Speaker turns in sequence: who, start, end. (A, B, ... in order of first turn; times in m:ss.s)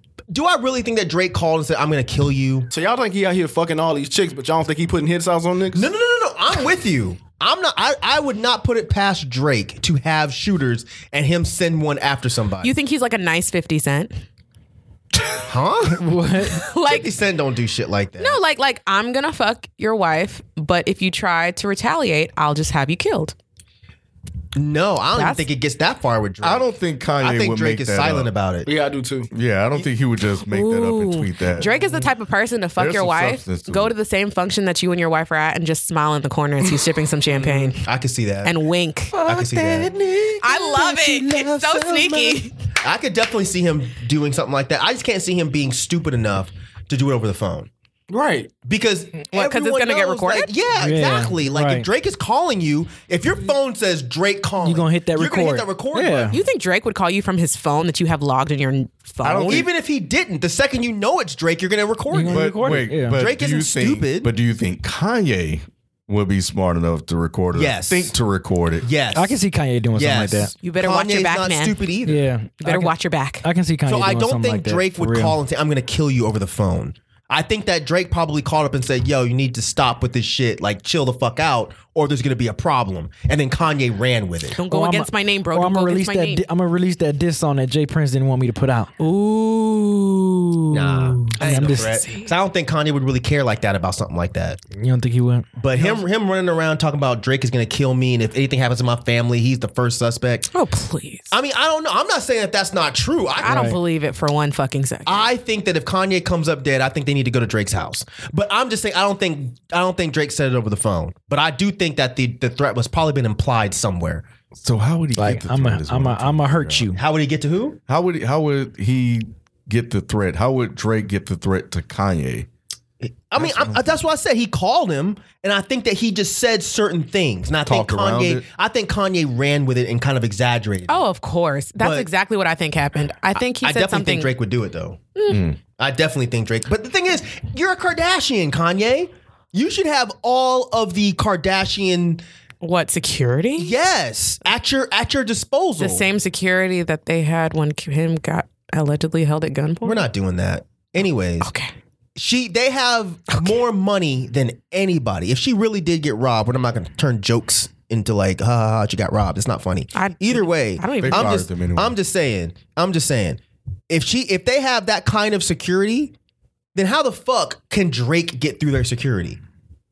0:00.3-0:02.7 A
0:02.7-0:05.9 B
0:05.7-0:12.7 A
0:12.6-0:14.2 C
0:15.5-0:16.0 A
0:15.9-0:16.7 D
0:16.6-0:17.1 C
0:16.8-0:18.4 A
0:18.2-0:23.4 C
0:24.6-0:28.7 A
0:25.2-0:25.5 C
0:26.4-0:28.3 E
0:28.7-0:29.3 B
0:29.3-0:31.8 E
0:30.5-0:37.9 C
0:32.8-0:34.0 E
0:37.8-0:38.5 A
0:38.4-0:39.2 C
0:39.1-0:47.7 A
0:39.2-0:40.2 B
0:40.4-0:42.5 C
0:48.1-0:48.5 B
0:48.6-0:56.4 A
0:49.3-0:50.5 C
0:50.8-0:51.9 D
0:54.6-0:56.4 D
0:56.3-0:59.6 C
0:59.2-0:59.7 E
0:59.4-1:04.3 A
1:02.1-1:03.2 D
1:02.3-1:08.9 E
1:07.5-1:08.1 A
1:08.8-1:09.4 A
1:09.2-1:10.5 D
1:10.0-1:12.3 A
1:10.6-1:11.8 C
1:12.1-1:15.4 D
1:12.6-1:13.4 C
1:13.9-1:24.6 A
1:24.6-1:26.4 C
1:24.7-1:28.9 D
1:29.0-1:32.3 C
1:30.7-1:34.6 A
1:31.3-1:32.0 D
1:34.8-1:35.5 D
1:35.6-1:40.5 A
1:40.5-1:41.4 C
1:41.3-1:43.8 A
1:43.4-1:45.3 C
1:43.5-1:43.8 D
1:45.1-1:54.3 A
1:54.6-1:56.9 E
1:55.2-1:57.0 D
1:57.0-1:57.8 A
1:57.9-2:02.5 E
2:03.0-2:11.0 A
2:03.4-2:03.9 E
2:07.7-2:08.4 E
2:10.9-2:14.3 C
2:11.8-2:12.1 A
2:13.4-2:15.0 A
2:15.2-2:15.4 C
2:15.3-2:15.6 E
2:15.8-2:22.2 A
2:22.6-2:23.8 C
2:23.6-2:26.1 A
2:25.8-2:30.1 C
2:29.8-2:31.5 A
2:31.4-2:31.7 C
2:32.2-2:46.1 A
2:40.0-2:41.4 C
2:41.0-2:42.0 E
2:46.8-2:49.4 A